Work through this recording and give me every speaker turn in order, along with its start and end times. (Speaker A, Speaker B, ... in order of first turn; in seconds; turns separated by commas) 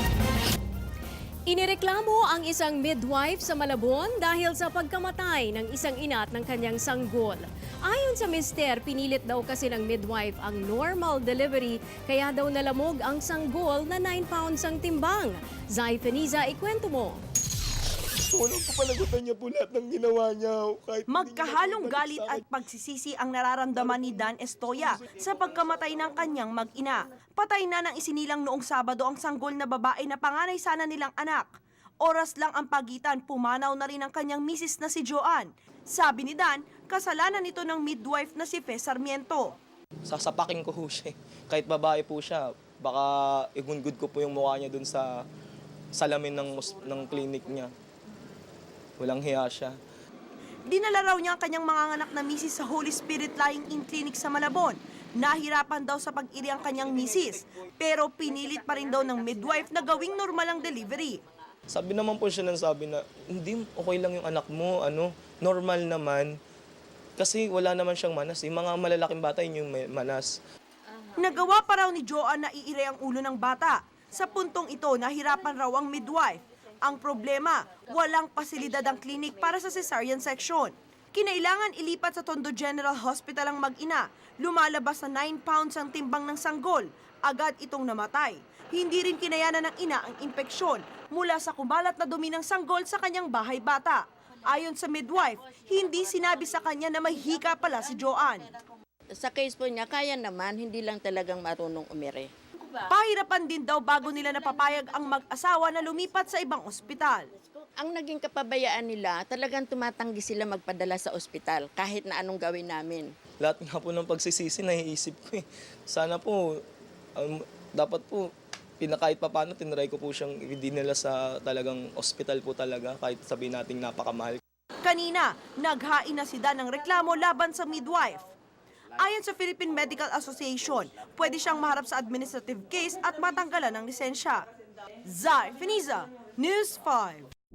Speaker A: 1.5-17.2, Speaker B: 18.2-22.4, Speaker C: 21.1-39.5, Speaker B: 23.8-24.1, Speaker B: 40.0-45.2, Speaker B: 45.9-47.7, Speaker B: 49.0-49.8, Speaker C: 50.6-61.2, Speaker D: 58.8-59.2, Speaker B: 61.7-66.4, Speaker B: 67.2-70.4, Speaker C: 71.1-98.5, Speaker D: 99.1-102.3, Speaker C: 102.7-107.3, Speaker D: 107.8-113.1, Speaker B: 113.4-116.6, Speaker B: 117.2-124.4, Speaker C: 124.8-128.3, Speaker C: 129.0-134.4, Speaker C: 135.0-137.3